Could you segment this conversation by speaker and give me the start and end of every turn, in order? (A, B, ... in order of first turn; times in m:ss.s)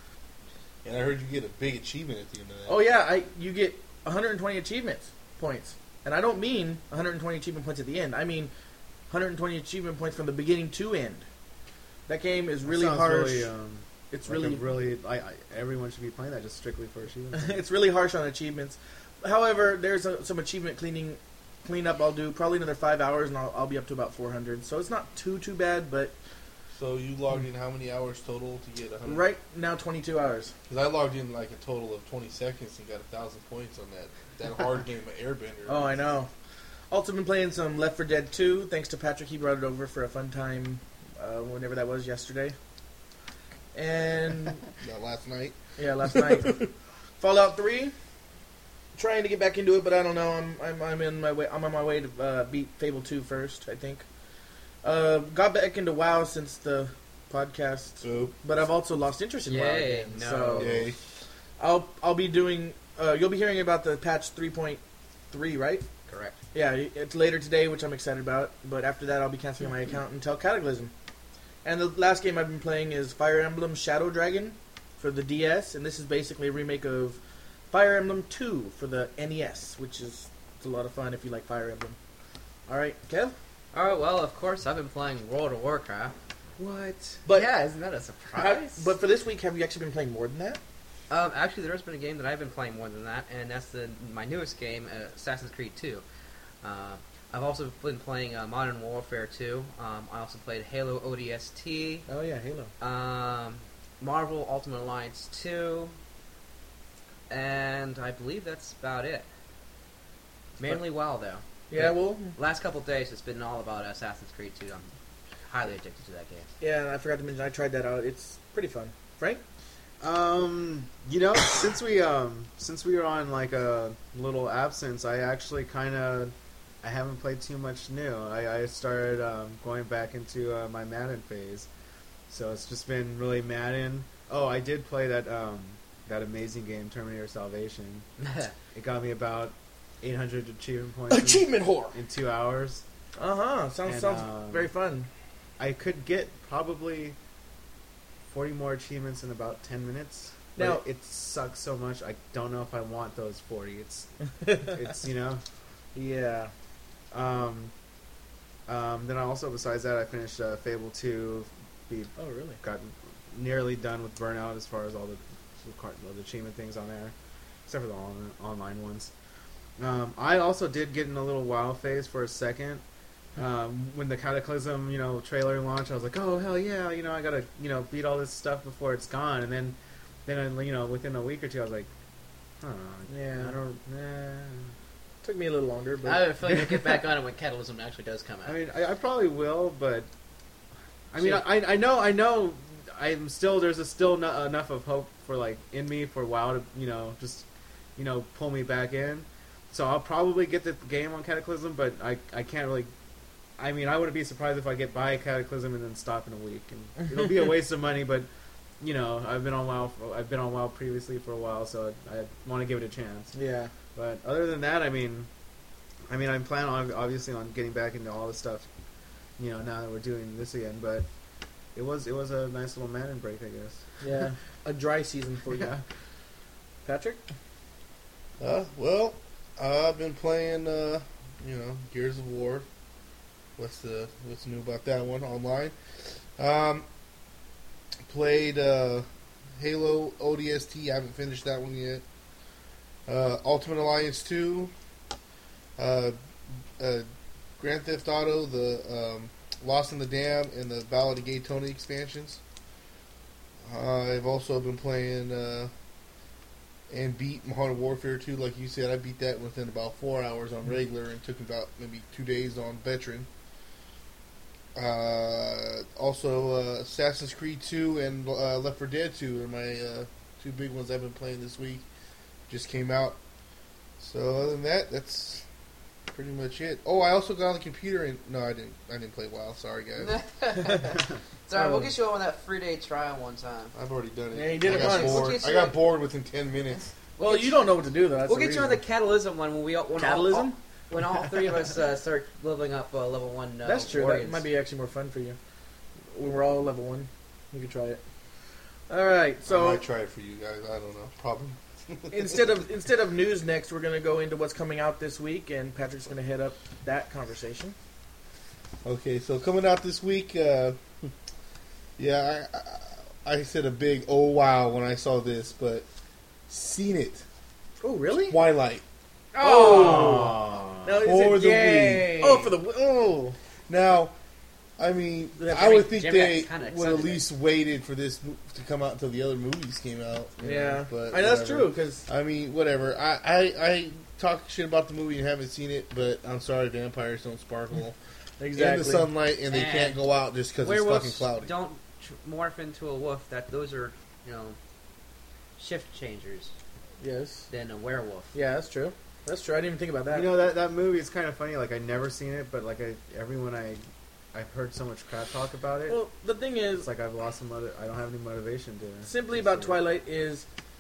0:00.8-0:02.8 A
0:02.7-0:08.5 B
0:09.1-0:11.3 B
0:12.1-0:13.5 B
0:12.7-0:17.6 C
0:14.1-0:14.7 B
0:17.3-0:26.1 B
0:26.8-0:29.2 A
0:29.1-0:30.5 B
0:30.7-0:36.0 A
0:35.7-0:36.3 B
0:36.9-0:42.6 B
0:43.7-0:44.7 B
0:44.8-0:46.7 A
0:45.8-0:46.7 B
0:47.2-0:47.9 B
0:49.0-0:54.1 B
0:54.8-1:00.8 B
0:58.0-0:58.3 A
0:59.5-1:00.8 D
1:00.6-1:01.0 A
1:01.6-1:05.9 B
1:06.1-1:06.4 D
1:06.5-1:10.9 B
1:11.6-1:17.2 B
1:17.7-1:22.0 B
1:22.7-1:23.3 B
1:23.7-1:28.9 D
1:28.3-1:30.6 B
1:31.1-1:36.0 D
1:36.6-1:42.1 D
1:42.1-1:42.7 B
1:42.8-1:45.9 D
1:47.3-1:49.3 D
1:50.6-1:54.9 D
1:51.7-1:52.3 B
1:55.5-1:56.5 D
1:56.6-1:59.4 B
2:00.0-2:11.7 C
2:12.3-2:18.1 C
2:18.2-2:18.5 D
2:18.7-2:22.8 C
2:21.1-2:22.0 B
2:23.2-2:25.1 B
2:23.8-2:24.7 C
2:25.6-2:27.2 C
2:28.3-2:35.4 C
2:30.6-2:30.8 B
2:34.4-2:34.8 B
2:35.9-2:36.5 B
2:37.1-2:37.7 C
2:38.7-2:47.1 C
2:42.2-2:42.6 B
2:47.7-2:49.1 C
2:49.8-2:52.8 C
2:53.4-3:01.9 C
3:02.6-3:04.7 C
3:03.1-3:03.5 B
3:05.2-3:06.2 B
3:06.0-3:08.6 D
3:06.4-3:07.0 C
3:08.4-3:10.1 C
3:11.1-3:17.4 C
3:11.2-3:11.4 B
3:18.0-3:22.9 C
3:23.6-3:28.3 C
3:28.8-3:33.3 C
3:33.3-3:33.7 B
3:34.0-3:35.3 C
3:36.1-3:38.7 C
3:39.4-3:41.1 C
3:41.8-3:43.8 C
3:44.0-3:45.7 B
3:45.5-3:45.8 C
3:46.8-3:47.2 B
3:48.4-3:52.6 A
3:53.6-3:55.8 A
3:56.4-3:56.8 A
3:58.1-3:59.1 A
3:59.6-4:02.0 A
4:03.1-4:04.7 A
4:05.8-4:06.2 A
4:06.8-4:07.1 A
4:07.6-4:12.4 A
4:13.7-4:15.7 A
4:16.9-4:23.3 A
4:24.8-4:31.8 A
4:32.5-4:33.2 A
4:34.0-4:35.4 A
4:36.1-4:40.2 A
4:40.0-4:43.7 D
4:41.5-4:41.9 B
4:43.7-4:46.9 A
4:44.3-4:45.4 B
4:44.6-4:45.8 D
4:47.2-4:47.7 D
4:47.2-4:48.8 B
4:48.2-4:54.4 D
4:50.0-4:50.6 B
4:53.6-4:55.4 B
4:56.1-4:58.0 B
4:58.9-4:59.8 B
4:59.5-5:02.4 A
5:02.1-5:07.8 B
5:08.8-5:11.1 A
5:12.0-5:15.8 A
5:16.5-5:17.2 A
5:17.8-5:18.4 B
5:18.3-5:18.8 A
5:19.3-5:20.3 D
5:19.4-5:21.5 B
5:19.7-5:21.0 C
5:21.0-5:22.2 A
5:21.4-5:22.5 D
5:22.1-5:23.4 B
5:23.7-5:24.1 A
5:24.8-5:38.0 A
5:25.4-5:25.9 B
5:25.6-5:27.2 D
5:30.4-5:32.0 B
5:38.4-5:39.1 B
5:38.5-5:41.5 A
5:39.5-5:40.0 D
5:40.6-5:44.6 D
5:45.6-5:46.5 D
5:47.0-5:47.5 B
5:47.5-5:48.3 D
5:48.3-5:50.3 B
5:50.1-5:53.8 C
5:54.3-5:56.0 C
5:55.9-5:56.9 B
5:56.8-5:59.8 C
5:59.1-6:00.5 B